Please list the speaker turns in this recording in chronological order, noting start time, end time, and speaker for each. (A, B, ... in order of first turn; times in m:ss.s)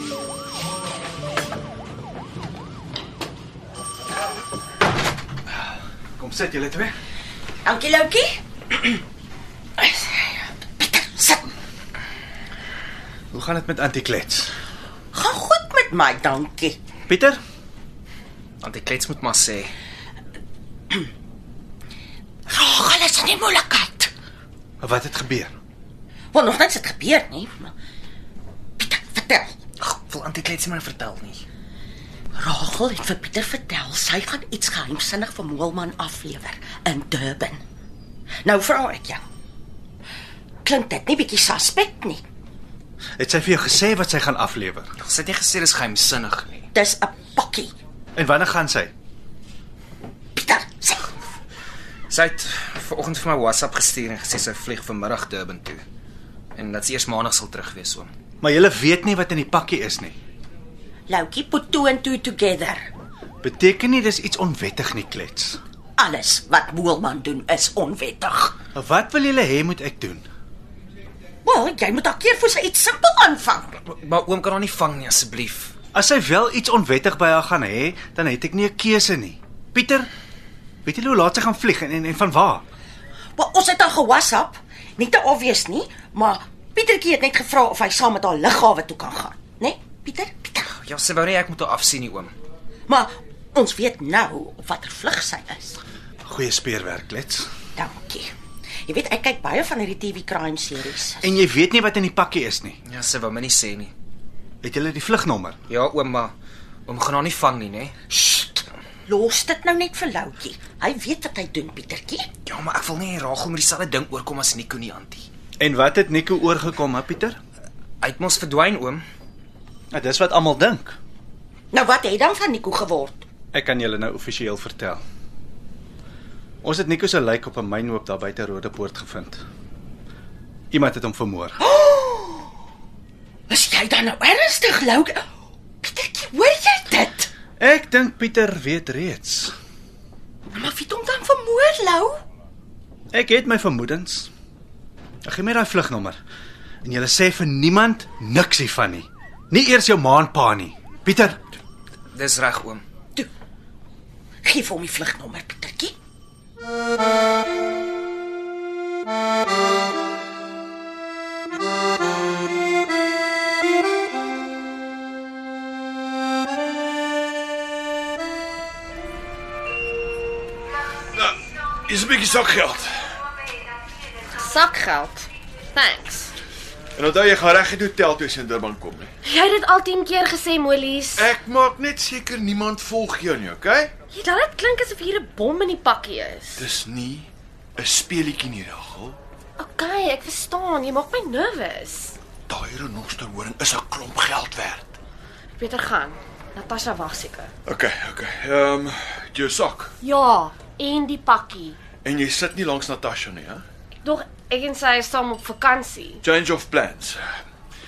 0:06.2-0:06.9 A
0:07.6-0:09.0 B
0:09.8-0:11.5 B
0:13.3-0:14.5 A
0:15.1-0:16.8 B
0:17.1-0:17.4 A
0:18.6-0:19.7 C
0:22.5-0:24.1 B
0:24.8-0:25.5 A
0:26.3-0:27.7 B
0:28.8-0:29.6 B
0:29.8-0:31.4 C
0:32.4-0:37.6 B
0:38.4-0:39.2 B
0:40.6-0:42.2 B
0:43.2-0:44.9 A
0:45.0-0:46.7 C
0:46.7-0:47.7 B
0:48.2-0:48.9 A
0:50.4-0:51.1 B
0:52.1-0:55.8 C
0:56.6-0:58.1 C
0:58.4-1:00.2 A
1:01.1-1:02.9 B
1:03.4-1:05.6 A
1:06.0-1:08.6 B
1:08.8-1:10.3 A
1:11.4-1:13.8 B
1:13.8-1:15.7 C
1:15.9-1:20.1 A
1:20.8-1:22.6 A
1:23.4-1:30.7 B
1:30.6-1:32.3 C
1:32.9-1:35.8 B
1:36.3-1:37.5 A
1:37.8-1:38.3 B
1:38.9-1:41.4 B
1:41.2-1:42.8 A
1:42.9-1:43.9 C
1:44.6-1:45.6 A
1:45.7-1:46.3 C
1:46.9-1:47.9 C
1:48.1-1:52.3 B
1:52.5-1:55.3 C
1:55.6-1:57.4 A
1:58.0-1:59.0 C
1:59.9-2:01.0 A
2:01.7-2:03.2 B
2:03.5-2:05.0 A
2:06.6-2:09.4 A
2:10.7-2:11.6 A
2:11.6-2:12.5 B
2:13.5-2:15.2 B
2:15.8-2:17.3 B
2:17.6-2:19.5 A
2:20.5-2:22.2 B
2:23.1-2:24.3 A
2:25.2-2:26.2 A
2:26.8-2:31.5 A
2:32.1-2:32.8 C
2:34.4-2:35.9 B
2:51.1-2:53.2 D
2:54.3-2:56.4 E
2:57.0-2:59.1 D
2:59.2-3:01.3 E
3:01.2-3:03.9 D
3:04.1-3:06.6 E
3:06.6-3:09.2 D
3:09.6-3:12.2 E
3:12.5-3:15.0 D
3:15.6-3:17.5 E
3:17.7-3:19.9 D
3:20.0-3:21.8 E
3:22.0-3:23.6 D
3:24.0-3:26.2 E
3:26.2-3:27.4 D